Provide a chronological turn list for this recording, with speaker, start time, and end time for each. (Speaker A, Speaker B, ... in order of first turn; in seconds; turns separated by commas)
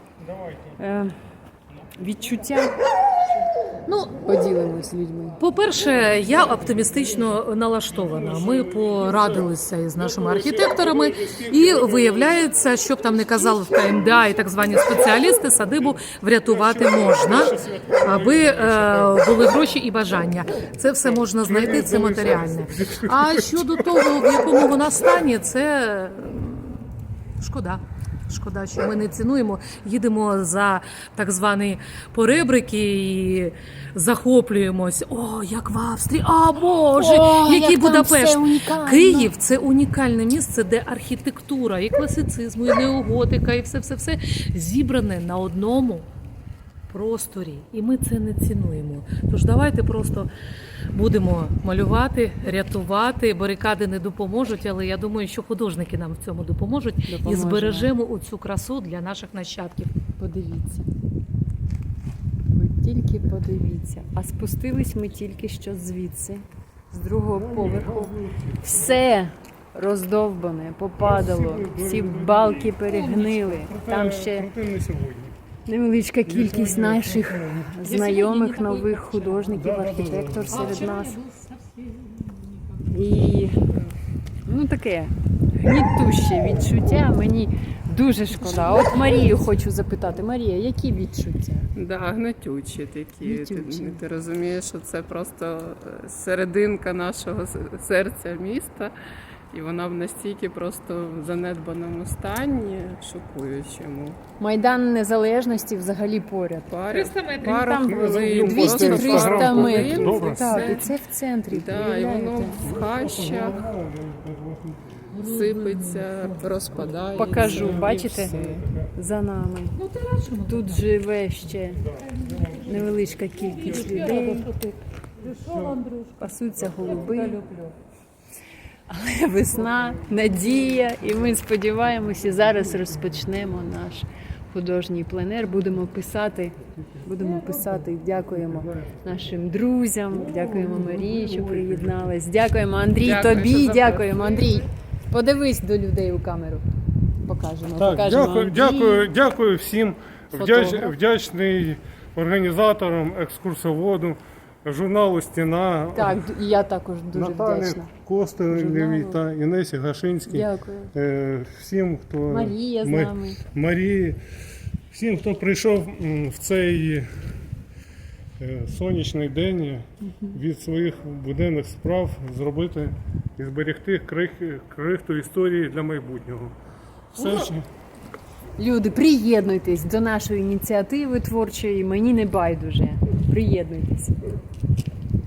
Speaker A: 0.2-0.8, Speaker B: 0.8-1.1, Speaker B: 2.0-2.7, Speaker C: 3.9-4.2, Speaker B: 4.2-5.4, Speaker C: 5.4-46.0, Speaker A: 6.2-7.4, Speaker A: 7.9-12.6, Speaker A: 13.6-14.2, Speaker A: 15.7-19.6, Speaker A: 21.0-24.3, Speaker B: 36.8-39.3, Speaker C: 46.9-50.3, Speaker C: 50.9-59.9, Speaker B: 57.1-57.9, Speaker B: 60.2-60.9, Speaker B: 62.5-74.5, Speaker A: 67.3-69.0, Speaker A: 71.0-75.3, Speaker B: 75.7-81.2, Speaker A: 76.2-77.8, Speaker C: 77.8-79.4, Speaker A: 79.5-80.8, Speaker C: 80.5-82.6, Speaker B: 82.8-83.6, Speaker B: 84.5-91.7, Speaker D: 91.7-98.9, Speaker B: 93.2-94.0, Speaker D: 99.5-104.2, Speaker B: 104.4-106.7, Speaker D: 106.7-110.9, Speaker C: 106.9-107.8, Speaker B: 107.4-112.7, Speaker A: 107.7-110.8, Speaker C: 110.4-110.9, Speaker D: 111.5-113.6, Speaker A: 112.6-115.2, Speaker C: 115.1-117.3, Speaker D: 115.2-118.6, Speaker B: 117.1-118.4, Speaker A: 117.3-118.9, Speaker B: 118.9-119.7, Speaker C: 119.8-120.8, Speaker B: 120.4-121.8, Speaker A: 121.9-123.1, Speaker C: 122.3-122.8, Speaker B: 122.6-124.5, Speaker C: 123.3-127.7, Speaker B: 126.2-127.4, Speaker B: 128.9-146.6, Speaker A: 137.8-139.1, Speaker A: 140.1-142.1, Speaker D: 143.0-144.6, Speaker B: 147.2-149.1, Speaker A: 147.8-156.3, Speaker B: 150.3-150.9, Speaker B: 155.9-157.9, Speaker A: 157.1-164.2, Speaker B: 158.5-159.2, Speaker B: 160.3-160.9, Speaker B: 162.3-163.4, Speaker A: 164.9-167.1, Speaker A: 168.4-176.5, Speaker A: 177.1-177.7, Speaker B: 177.2-177.5, Speaker B: 178.6-184.3